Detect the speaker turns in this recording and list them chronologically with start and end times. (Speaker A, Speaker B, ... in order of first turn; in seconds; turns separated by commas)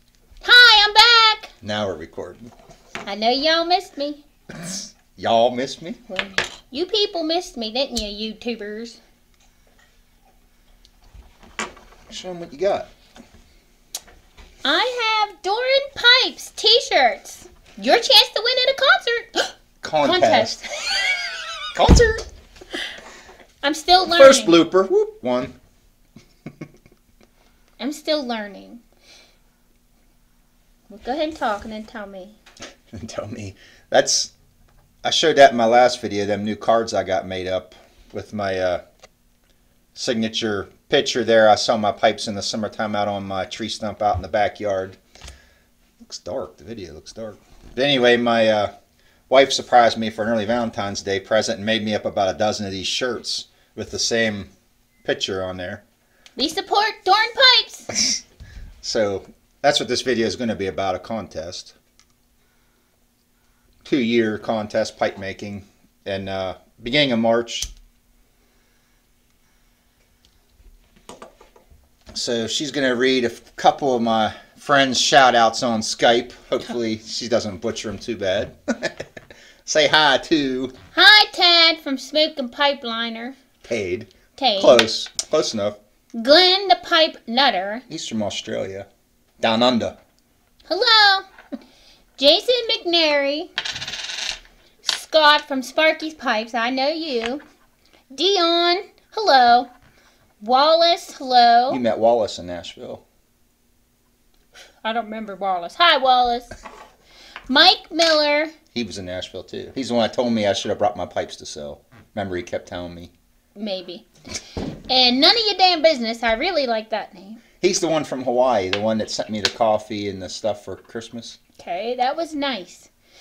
Speaker A: 0.4-1.5, Speaker B: 1.6-2.5, Speaker A: 3.0-4.2, Speaker B: 4.5-6.0, Speaker A: 6.1-9.0, Speaker B: 12.1-12.9, Speaker A: 14.6-20.6, Speaker B: 19.8-20.6, Speaker B: 21.7-22.2, Speaker A: 23.6-24.6, Speaker B: 24.1-25.6, Speaker A: 27.8-28.8, Speaker A: 30.9-32.4, Speaker B: 32.9-34.3, Speaker B: 35.0-38.8, Speaker B: 39.9-45.0, Speaker B: 46.0-48.7, Speaker B: 49.3-54.5, Speaker B: 55.0-55.8, Speaker A: 56.4-57.9, Speaker B: 57.9-58.2, Speaker B: 58.8-61.7, Speaker B: 63.8-67.7, Speaker B: 72.1-79.0, Speaker B: 79.6-80.7, Speaker A: 80.9-83.3, Speaker B: 83.6-85.8, Speaker A: 84.3-84.8, Speaker A: 86.1-87.8, Speaker B: 87.9-88.9, Speaker B: 89.4-90.0, Speaker A: 90.7-91.3, Speaker A: 92.2-93.5, Speaker A: 94.8-97.4, Speaker A: 98.1-99.7, Speaker A: 100.4-101.8, Speaker B: 101.7-103.0, Speaker A: 104.8-106.5, Speaker A: 107.5-108.5, Speaker B: 108.7-113.1, Speaker A: 113.5-117.4, Speaker B: 117.6-121.4, Speaker A: 121.6-122.9